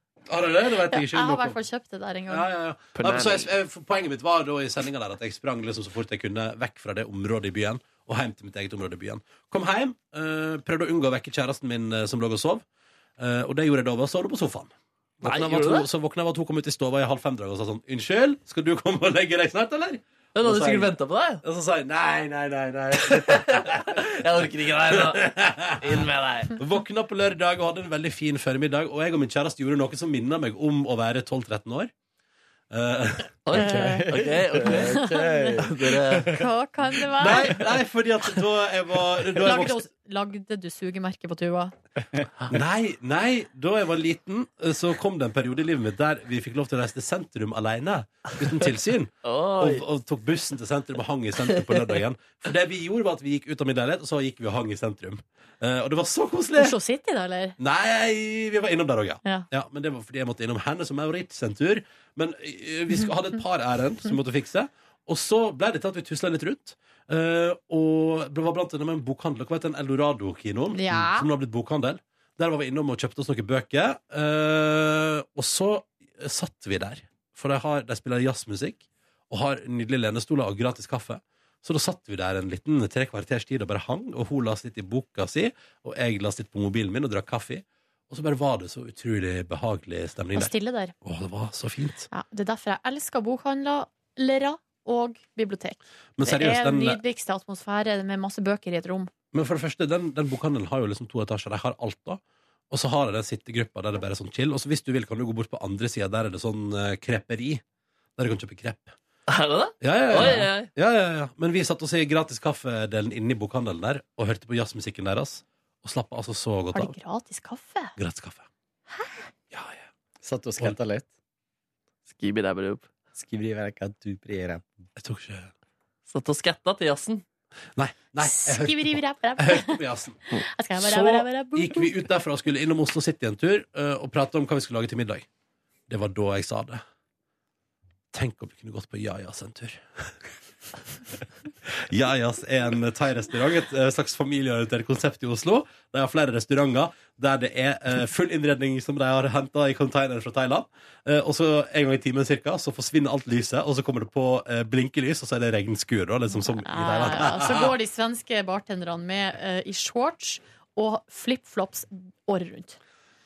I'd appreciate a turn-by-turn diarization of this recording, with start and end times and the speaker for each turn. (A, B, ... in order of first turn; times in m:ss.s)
0:00.3-0:01.6 A
0:00.9-0:02.5 B
0:02.3-0:12.6 A
0:03.0-0:03.5 C
0:13.2-0:31.9 A
0:15.2-0:15.9 C
0:20.4-0:21.4 C
0:23.0-0:26.6 C
0:32.7-0:33.5 A
0:33.5-0:35.0 C
0:33.5-0:34.1 B
0:33.6-0:36.4 D
0:34.6-0:37.6 B
0:35.6-0:36.3 C
0:37.2-0:39.8 A
0:39.4-0:41.7 B
0:42.5-0:56.8 A
0:49.2-0:49.8 C
0:51.5-0:51.9 C
0:56.6-0:57.6 B
0:57.6-1:32.1 A
1:10.7-1:11.3 B
1:30.4-1:30.9 B
1:32.1-1:39.1 B
1:36.2-1:37.0 A
1:39.3-1:47.6 A
1:48.2-1:49.0 A
1:49.3-1:50.7 C
1:49.8-1:57.0 A
1:56.7-1:58.0 B
1:58.0-1:58.5 A
1:58.9-1:59.3 B
1:59.5-1:59.9 A
2:00.2-2:01.1 D
2:02.1-2:02.9 C
2:03.2-2:04.8 D
2:05.0-2:05.5 A
2:06.1-2:07.2 C
2:07.8-2:10.2 A
2:08.2-2:09.8 B
2:10.4-2:11.9 B
2:10.8-2:15.3 A
2:15.9-2:16.8 A
2:18.1-2:20.1 A
2:21.7-2:37.8 A
2:36.3-2:42.8 B